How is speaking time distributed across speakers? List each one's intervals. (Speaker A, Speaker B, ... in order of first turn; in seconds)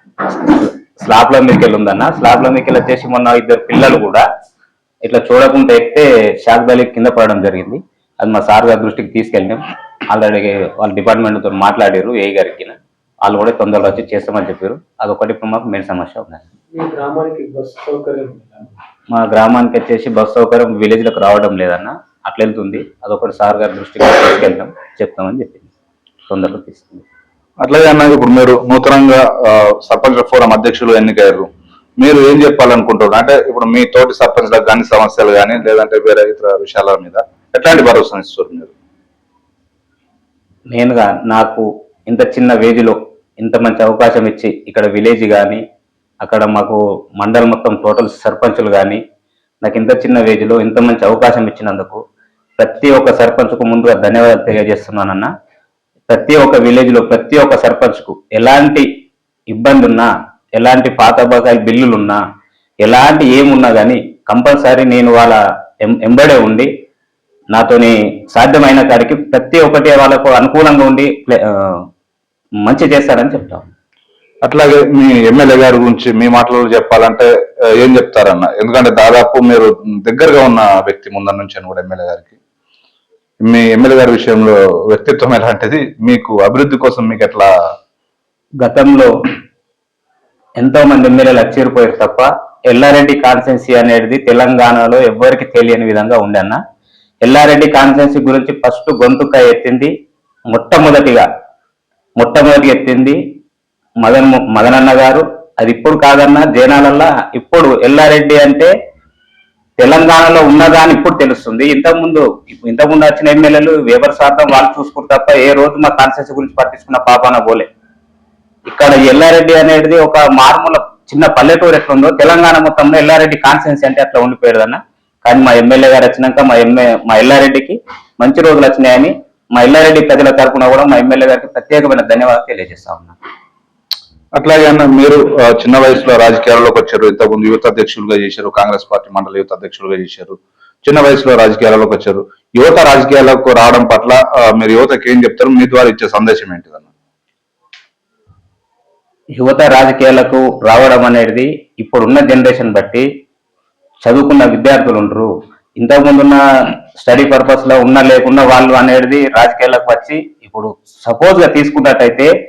Speaker A: 0.4-4.2, 5.0-16.4, 19.1-25.7, 26.3-27.0, 40.7-45.6, 46.2-49.0, 49.6-52.0, 52.6-55.3, 56.1-58.9, 59.5-62.2, 62.8-66.7, 67.5-71.8, 72.6-73.7, 88.6-89.1, 90.6-96.6, 97.2-99.9, 100.5-101.2, 102.2-103.2, 104.0-108.7, 109.8-117.7, 118.7-133.2, 149.4-153.1, 154.0-162.3
Speaker B: 16.7-18.7
Speaker C: 27.6-31.5, 32.0-38.7, 74.4-77.3, 77.8-82.4, 83.5-87.5, 134.3-146.9